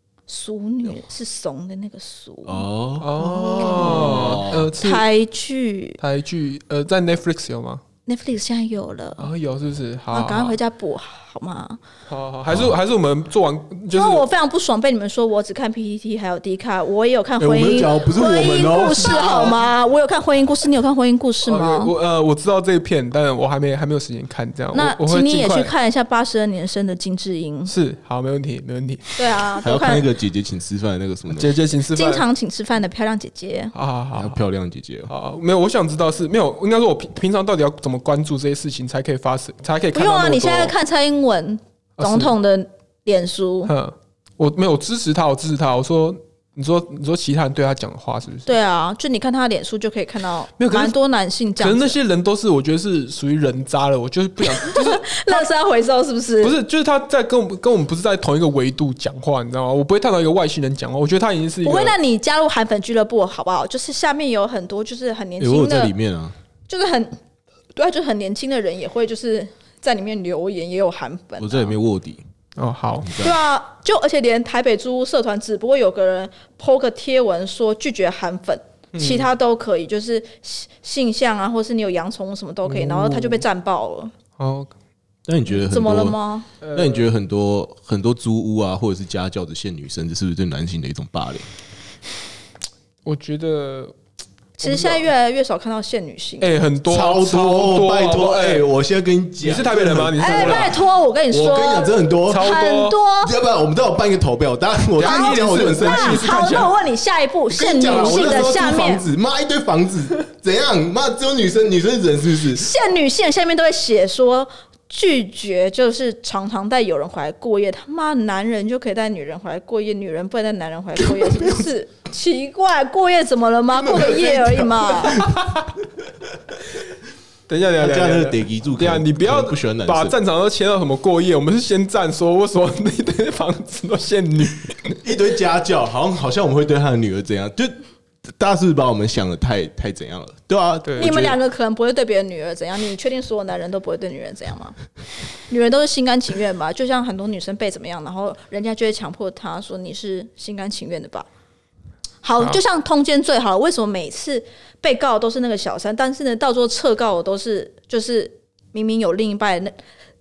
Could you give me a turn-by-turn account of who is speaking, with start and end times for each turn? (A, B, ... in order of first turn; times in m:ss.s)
0:00.3-0:02.6 A
0:02.4-0:04.7 B
0:03.0-0:05.0 C
0:03.2-0:06.0 A
0:06.0-0:07.8 C
0:08.1-0:09.3 A
0:09.2-0:10.6 C
0:10.1-0:11.8 A
0:12.1-0:14.3 C
0:12.5-0:12.7 B
0:13.9-0:21.9 A
0:17.4-0:19.6 B
0:21.4-0:25.7 C
0:24.7-0:27.7 A
0:27.7-0:29.2 C
0:29.2-0:30.1 A
0:29.6-0:31.6 B
0:31.3-0:32.2 C
0:31.9-0:33.7 A
0:33.7-0:34.4 C
0:34.1-0:35.1 B
0:35.1-0:40.8 C
0:39.9-0:43.7 A
0:42.0-0:42.3 C
0:43.7-0:48.5 C
0:48.5-0:52.0 A
0:50.6-0:51.0 C
0:51.6-0:55.4 C
0:54.5-0:56.6 A
0:56.4-1:02.0 C
1:01.6-1:05.9 A
1:05.4-1:06.4 B
1:06.7-1:07.2 A
1:07.8-1:11.8 A
1:11.4-1:12.2 B
1:12.6-1:13.1 C
1:13.0-1:13.3 B
1:13.2-1:24.1 A
1:18.9-1:19.3 C
1:22.7-1:23.4 C
1:24.4-1:24.7 C
1:25.3-1:26.2 B
1:25.6-1:26.5 A
1:26.6-1:27.1 C
1:26.7-1:31.5 B
1:33.0-1:34.0 C
1:34.6-1:36.5 A
1:34.6-1:35.1 C
1:36.4-1:38.7 C
1:36.9-1:40.8 B
1:39.4-1:40.8 C
1:40.2-1:43.3 A
1:41.3-1:42.5 B
1:42.3-1:43.0 C
1:43.2-1:46.3 B
1:45.0-1:46.8 C
1:45.0-1:49.1 A
1:47.5-1:52.7 B
1:48.0-1:48.4 C
1:52.5-2:05.3 A
2:03.8-2:05.5 B
2:05.2-2:05.6 C
2:07.5-2:15.0 C
2:07.8-2:10.2 B
2:15.0-2:21.4 B
2:20.8-2:21.3 C
2:21.0-2:24.8 A
2:25.5-2:31.3 A
2:32.2-2:39.8 A